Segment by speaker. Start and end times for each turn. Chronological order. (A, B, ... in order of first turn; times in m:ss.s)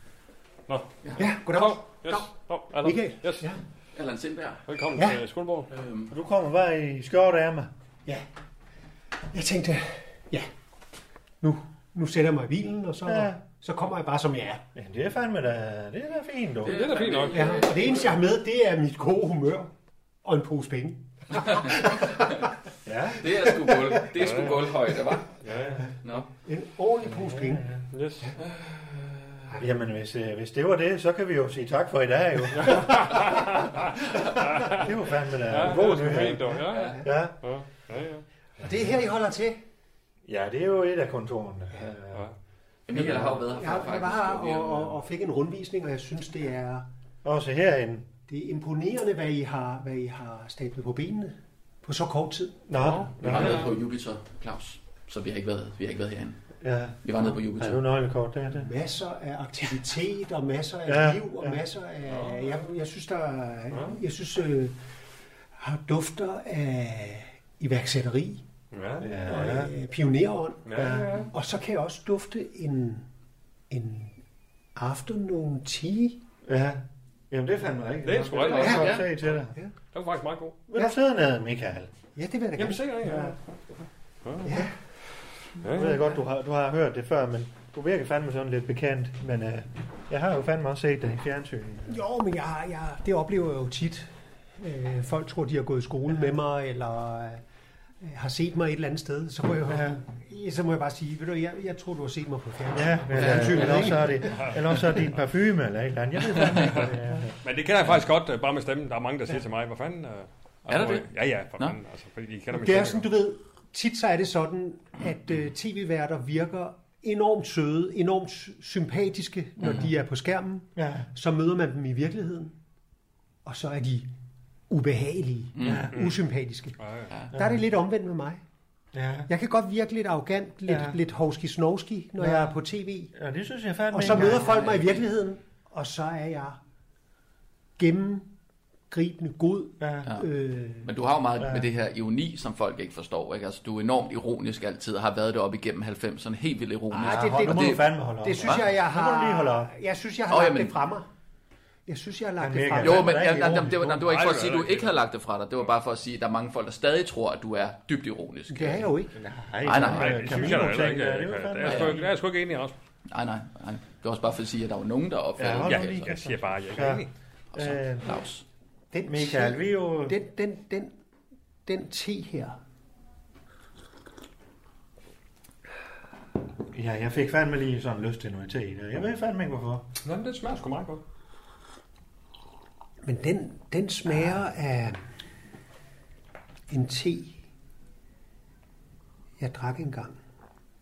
0:00.7-0:03.4 A
0:01.2-0:03.6 B
0:04.0-0:04.6 C
0:04.7-0:05.7 A
0:04.9-0:05.2 B
0:05.7-0:06.1 C
0:06.1-0:07.7 D
0:09.3-0:10.5 B
0:11.4-0:14.6 B
0:13.1-0:13.4 D
0:14.8-0:16.8 D
0:16.6-0:18.1 C
0:16.6-0:17.7 A
0:17.3-0:19.7 B
0:20.2-0:22.5 B
0:21.5-0:22.4 C
0:22.8-0:23.4 D
0:23.2-0:25.4 C
0:24.2-0:24.7 A
0:25.4-0:25.9 A
0:26.4-0:27.7 B
0:27.1-0:27.8 D
0:27.9-0:28.4 A
0:29.6-0:37.4 D
0:32.6-0:33.8 A
0:34.4-0:34.8 A
0:35.5-0:38.2 A
0:36.7-0:37.0 C
0:38.6-0:39.6 B
0:40.2-0:42.3 D
0:42.9-0:44.9 C
0:43.0-0:46.9 B
0:47.2-0:48.1 D
0:48.3-0:52.7 B
0:52.7-0:53.7 D
0:52.8-0:53.7 A
0:53.2-0:56.4 C
0:56.6-0:58.7 D
0:57.0-0:57.8 C
0:58.5-1:04.8 B
1:00.9-1:01.6 D
1:02.1-1:02.6 A
1:03.7-1:04.0 A
1:05.6-1:08.4 B
1:08.7-1:09.1 A
1:09.0-1:09.7 D
1:09.2-1:13.1 B
1:10.6-1:11.3 A
1:10.8-1:11.2 D
1:13.7-1:14.1 B
1:14.8-1:16.2 B
1:16.5-1:19.6 D
1:18.0-1:19.1 A
1:18.5-1:19.1 C
1:19.9-1:20.6 A
1:20.7-1:21.9 D
1:22.2-1:23.2 B
1:22.6-1:23.4 A
1:23.0-1:23.4 D
1:24.2-1:24.7 A
1:24.4-1:24.8 B
1:25.6-1:26.0 A
1:25.7-1:26.0 B
1:25.7-1:32.0 D
1:31.9-1:37.4 B
1:38.0-1:44.9 B
1:39.7-1:40.0 D
1:42.7-1:47.3 D
1:43.1-1:43.9 C
1:44.3-1:44.6 A
1:46.5-1:53.1 A
1:50.7-1:51.8 C
1:52.5-2:02.6 B
1:59.6-1:59.9 C
2:00.8-2:01.1 D
2:03.4-2:04.1 B
2:04.7-2:06.8 B
2:05.6-2:05.9 C
2:05.6-2:06.0 D
2:06.8-2:07.1 A
2:07.3-2:08.4 B
2:07.3-2:07.6 D
2:08.9-2:09.3 D
2:09.3-2:13.1 B
2:10.7-2:11.0 D
2:12.2-2:12.6 D
2:13.1-2:14.6 D
2:13.9-2:16.6 B
2:14.1-2:15.0 C
2:17.8-2:18.3 B
2:18.9-2:20.9 B
2:19.8-2:20.1 D
2:20.8-2:27.9 C
2:21.4-2:21.6 D
2:26.9-2:31.1 B
2:27.0-2:29.7 D
2:28.4-2:28.6 C
2:30.3-2:30.8 C
2:31.9-2:33.2 B
2:32.4-2:34.1 D
2:32.8-2:38.9 C
2:34.0-2:35.0 A
2:38.5-2:39.2 B
2:39.1-2:42.1 D
2:39.6-2:40.4 C
2:39.7-2:42.7 A
2:41.6-2:42.0 C
2:43.1-2:46.1 C
2:45.4-2:48.2 D
2:45.6-2:47.1 A
2:47.5-2:48.4 C
2:48.9-2:50.9 B
2:49.1-2:50.2 D
2:51.6-2:52.6 B
2:56.7-2:59.9 D
3:00.0-3:01.0 A
3:03.0-3:05.0 B
3:06.7-3:07.4 B
3:09.4-3:10.2 B